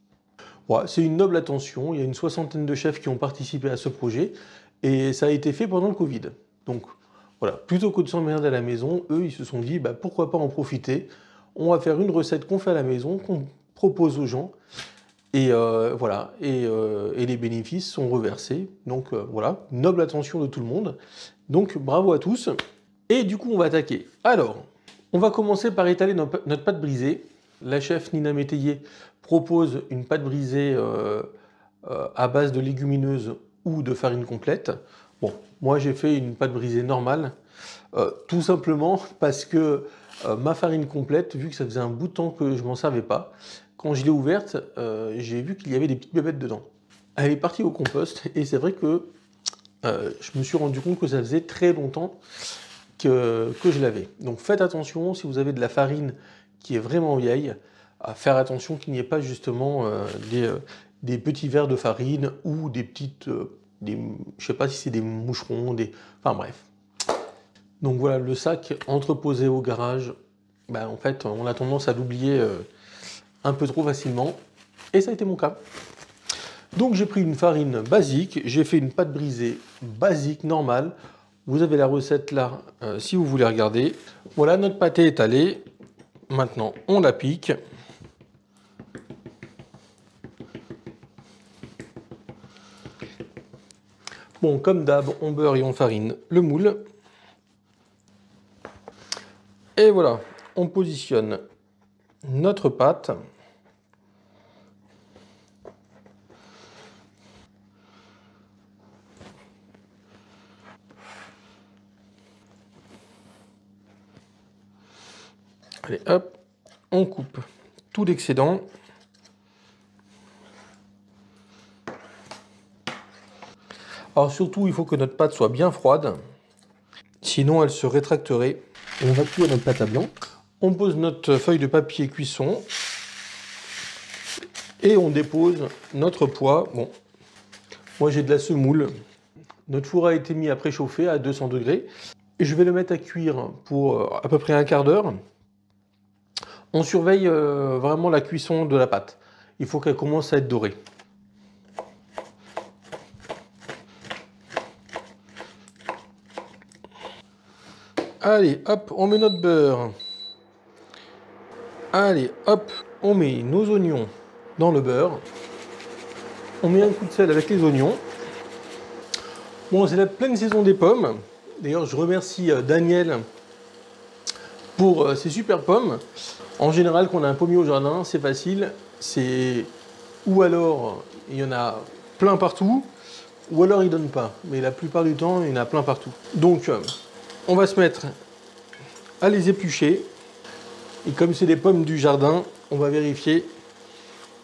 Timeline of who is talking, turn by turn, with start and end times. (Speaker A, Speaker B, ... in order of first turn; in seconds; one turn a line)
Speaker A: 0.7-6.9
Speaker A: 7.4-14.5
Speaker A: 15.3-21.0
Speaker A: 21.5-22.6
Speaker A: 23.1-31.3
Speaker A: 31.8-37.3
Speaker A: 37.9-46.6
Speaker A: 47.2-49.1
Speaker A: 49.8-52.2
Speaker A: 53.0-66.7
Speaker A: 67.8-70.1
Speaker A: 70.7-72.7
Speaker A: 73.4-74.4
Speaker A: 74.9-75.6
Speaker A: 76.7-80.9
Speaker A: 81.5-85.6
Speaker A: 86.3-87.5
Speaker A: 94.4-96.8
Speaker A: 99.8-101.4
Speaker A: 102.2-103.2
Speaker A: 115.8-116.3
Speaker A: 116.9-118.6
Speaker A: 124.1-126.2
Speaker A: 127.2-132.7
Speaker A: 134.8-136.9
Speaker A: 138.0-138.9
Speaker A: 139.7-141.9
Speaker A: 142.4-145.2
Speaker A: 146.7-150.8
Speaker A: 158.2-159.9
Speaker A: 161.9-165.2
Speaker A: 166.6-168.0
Speaker A: 169.7-173.2
Speaker A: 174.8-176.0
Speaker A: 176.6-179.7
Speaker A: 180.2-182.9
Speaker A: 183.5-186.9
Speaker A: 187.5-188.1
Speaker A: 189.2-190.1
Speaker A: 191.0-193.5